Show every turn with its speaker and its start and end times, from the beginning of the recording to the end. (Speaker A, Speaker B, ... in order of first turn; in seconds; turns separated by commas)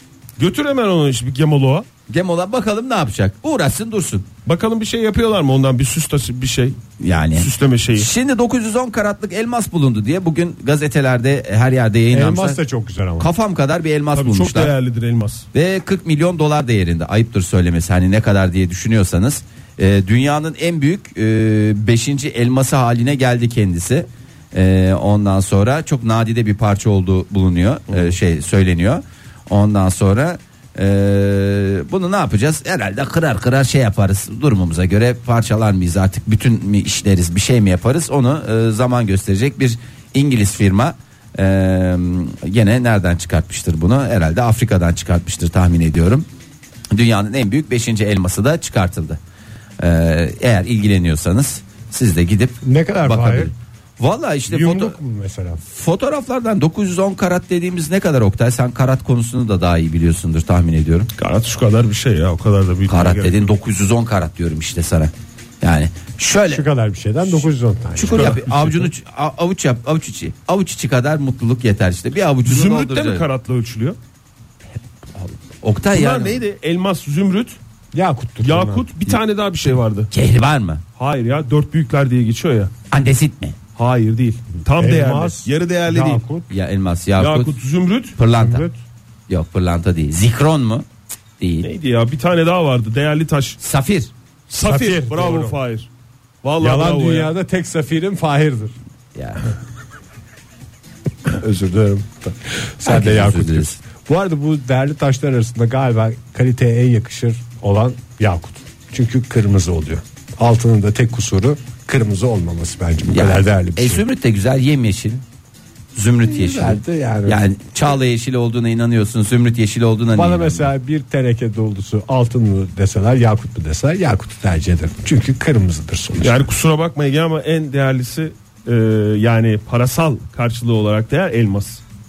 Speaker A: 0.4-1.9, Speaker B: 2.1-4.3, Speaker A: 4.5-6.8, Speaker B: 7.0-12.6, Speaker A: 7.4-8.1, Speaker C: 12.1-13.3, Speaker B: 13.2-14.7, Speaker A: 14.2-15.5, Speaker B: 15.5-46.3, Speaker B: 46.9-49.2, Speaker B: 49.8-55.0, Speaker C: 52.6-53.5, Speaker C: 54.5-55.6, Speaker B: 55.6-61.1, Speaker A: 61.2-63.5, Speaker B: 62.9-66.7, Speaker C: 66.5-68.4, Speaker B: 68.0-73.2, Speaker A: 68.2-68.9, Speaker A: 72.5-74.0, Speaker B: 75.2-76.4, Speaker A: 75.9-77.6, Speaker C: 77.9-78.8, Speaker A: 78.4-80.1, Speaker B: 80.1-80.8, Speaker A: 81.0-82.7, Speaker B: 82.9-83.6, Speaker A: 83.8-86.2, Speaker C: 84.8-86.5, Speaker B: 86.5-87.5, Speaker A: 87.2-88.2, Speaker B: 88.2-88.7, Speaker C: 88.4-88.8, Speaker B: 89.3-90.9, Speaker B: 91.4-91.7, Speaker A: 91.6-93.6, Speaker B: 93.6-94.1, Speaker A: 94.5-95.9, Speaker C: 94.6-95.6, Speaker A: 96.4-97.3, Speaker C: 96.6-98.7, Speaker B: 99.2-99.4, Speaker C: 101.2-114.0, Speaker B: 102.8-103.8, Speaker B: 113.1-115.2, Speaker B: 116.0-120.7, Speaker C: 116.2-117.4, Speaker C: 120.2-126.4, Speaker A: 126.2-131.8